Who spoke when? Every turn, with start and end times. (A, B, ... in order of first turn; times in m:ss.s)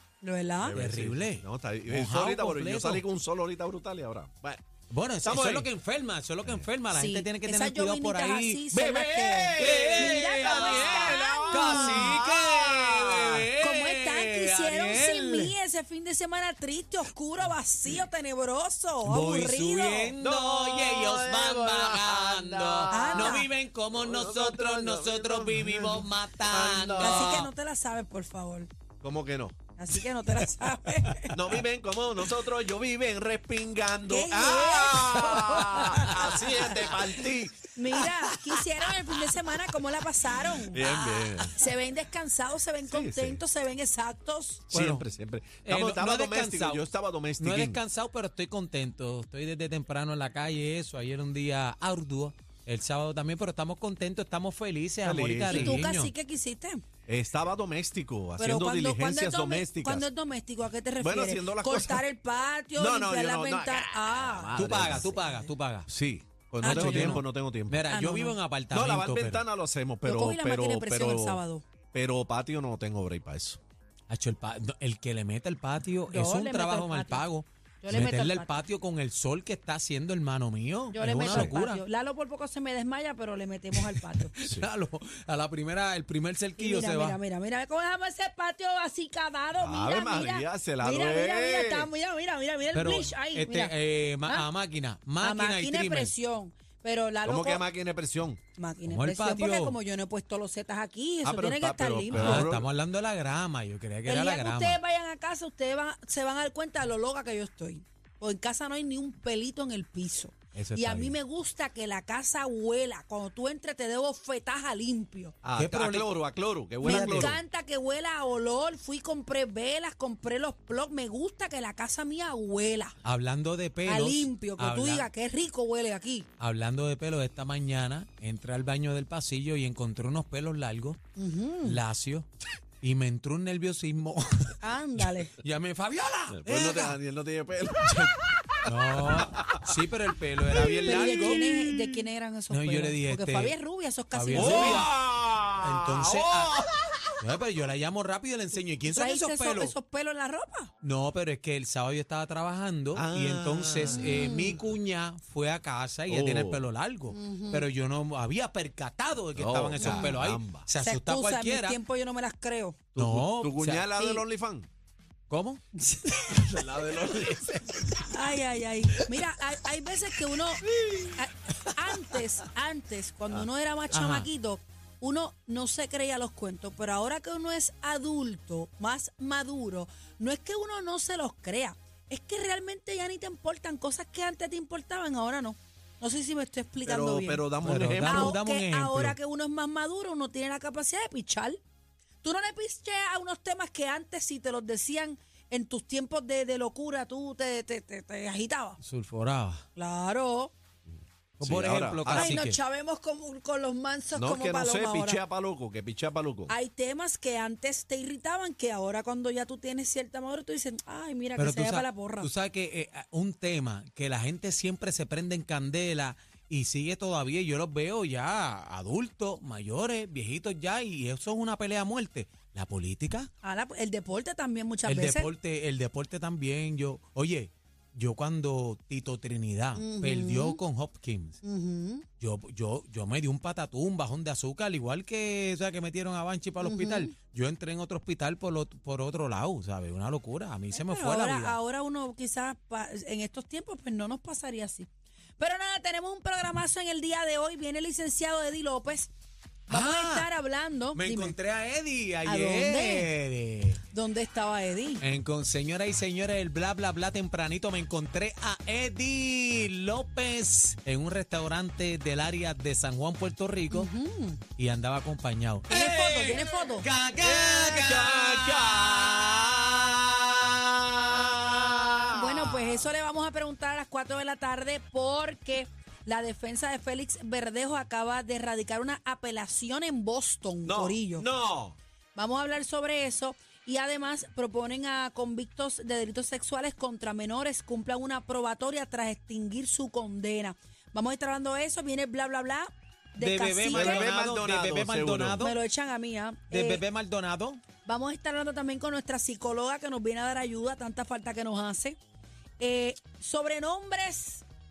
0:00.2-0:00.8 A
0:00.6-0:04.6 B
0:00.6-0:03.0 C
0:04.9-0:08.6 C
0:05.2-0:05.7 B
0:06.9-0:12.2 A
0:08.7-0:13.4 B
0:09.6-0:15.5 C
0:13.6-0:20.2 A
0:19.0-0:27.5 C
0:20.2-0:27.5 B
0:22.9-0:23.5 A
0:27.0-0:28.7 A
0:29.0-0:29.6 B
0:29.8-0:31.4 A
0:31.3-0:37.6 B
0:34.1-0:36.9 A
0:35.3-0:37.1 C
0:37.8-0:44.7 A
0:40.7-0:41.6 B
0:42.9-0:43.4 B
0:44.7-0:47.8 B
0:44.7-0:45.1 C
0:45.6-0:46.9 C
0:47.4-0:56.1 C
0:55.0-0:55.8 B
0:55.5-0:56.8 A
0:57.1-1:00.1 B
0:58.4-1:05.5 A
1:01.0-1:02.0 B
1:02.8-1:05.2 B
1:04.5-1:05.9 C
1:05.9-1:07.8 B
1:06.6-1:09.5 C
1:06.6-1:07.2 A
1:07.9-1:08.4 A
1:08.7-1:11.4 B
1:10.0-1:11.6 A
1:11.9-1:13.6 B
1:14.1-1:21.8 C
1:16.1-1:17.3 A
1:17.8-1:18.6 A
1:20.9-1:24.4 A
1:21.1-1:21.6 B
1:23.8-1:27.2 C
1:24.4-1:24.7 B
1:26.6-1:34.5 A
1:29.6-1:31.9 B
1:32.7-1:36.1 C
1:35.2-1:37.6 A
1:37.2-1:38.4 B
1:38.6-1:42.5 A
1:38.9-1:39.8 C
1:41.2-1:42.7 B
1:42.1-1:44.8 C
1:44.0-1:55.4 A
1:50.5-1:51.2 C
1:55.4-1:57.4 B
1:55.6-1:56.2 C
1:56.8-1:57.4 C
1:56.8-2:03.0 A
2:03.0-2:05.1 C
2:03.8-2:06.3 A
2:06.4-2:11.0 C
2:11.2-2:11.8 A
2:11.6-2:12.3 C
2:12.8-2:17.0 C
2:14.6-2:15.3 A
2:16.3-2:19.7 B
2:17.8-2:21.4 C
2:20.5-2:22.1 B
2:20.9-2:24.9 A
2:22.5-2:23.6 C
2:24.1-2:24.9 C
2:24.3-2:27.1 B
2:25.6-2:26.6 C
2:27.2-2:29.8 C
2:28.8-2:30.7 A
2:30.8-2:41.8 C
2:32.9-2:34.4 B
2:33.9-2:34.6 A
2:36.1-2:36.6 B
2:37.1-2:37.7 A
2:39.4-2:40.7 B
2:39.8-2:40.2 A
2:40.8-2:42.8 A
2:43.0-2:44.7 B
2:43.0-2:43.9 C
2:44.0-2:44.2 A
2:45.3-2:45.6 C
2:45.8-2:46.4 A
2:46.3-2:48.2 B
2:48.1-2:50.6 A
2:48.9-2:49.2 B
2:50.6-2:51.3 B
2:51.2-3:11.6 A
2:53.9-2:54.3 C
3:06.8-3:08.4 B
3:07.6-3:09.2 C
3:12.2-3:18.8 A
3:18.8-3:19.6 C
3:19.8-3:20.5 A
3:20.9-3:22.4 B
3:21.4-3:22.6 C
3:22.1-3:25.2 A
3:24.1-3:26.5 B
3:26.5-3:32.3 A
3:31.4-3:43.3 C
3:43.4-3:45.3 A
3:44.8-3:51.4 C
3:49.8-3:50.6 A
3:51.4-3:52.0 A
3:52.2-4:01.6 C
3:56.6-3:57.1 A
4:00.7-4:09.1 A
4:09.7-4:10.3 C
4:09.7-4:11.4 A
4:10.9-4:13.8 C
4:12.2-4:13.1 A
4:13.9-4:15.0 A
4:15.0-4:23.9 C
4:23.7-4:24.4 A
4:24.6-4:30.1 C
4:25.7-4:26.9 A
4:27.2-4:29.4 B
4:30.9-4:32.8 B
4:31.0-4:31.9 C
4:32.1-4:41.3 A
4:40.7-4:41.8 B
4:42.2-4:54.1 A
4:53.2-4:55.6 C
4:53.7-4:55.4 B
4:55.4-4:56.8 A
4:56.5-4:57.6 C
4:57.8-5:02.0 A
5:02.6-5:04.4 A